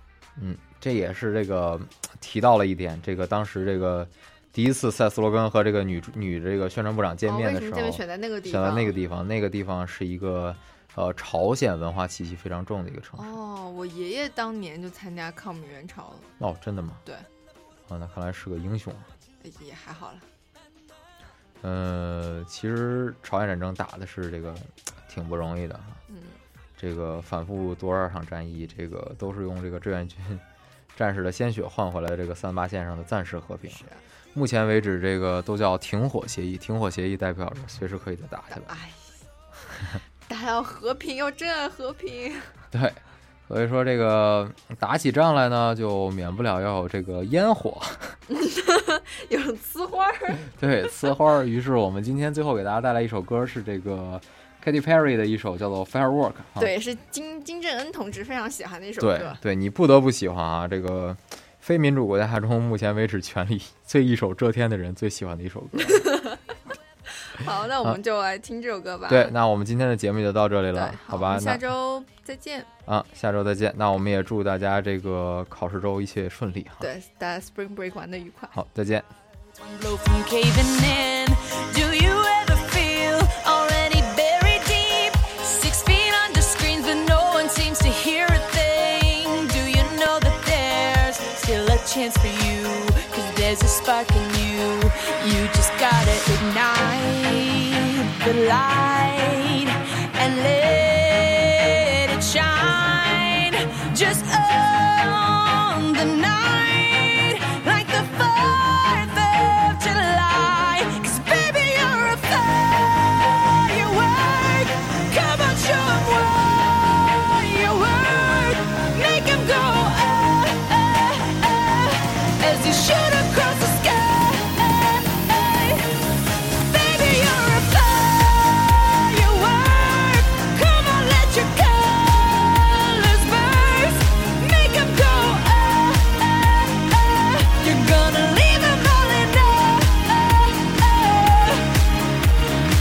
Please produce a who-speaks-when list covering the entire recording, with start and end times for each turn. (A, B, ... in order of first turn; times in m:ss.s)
0:00.4-0:13.3 A
0:07.2-0:09.0 B
0:13.2-0:16.3 B
0:16.4-0:17.0 A
0:17.9-0:19.1 A
0:19.4-0:20.2 B
0:21.6-0:26.0 A
0:26.1-0:26.4 B
0:26.8-0:30.4 A
0:31.0-0:38.8 A
0:33.7-0:34.0 B
0:38.5-0:39.1 B
0:40.3-0:42.5 B
0:42.7-0:48.2 A
0:48.3-0:50.9 B
0:50.5-0:56.7 A
0:56.6-0:59.4 B
0:59.0-1:06.3 A
1:05.8-1:06.4 B
1:07.3-1:09.3 B
1:09.1-1:11.7 A
1:10.7-1:12.7 B
1:12.8-1:16.9 A
1:16.8-1:18.5 B
1:18.5-1:19.1 A
1:19.6-2:06.0 C
2:06.6-2:21.7 C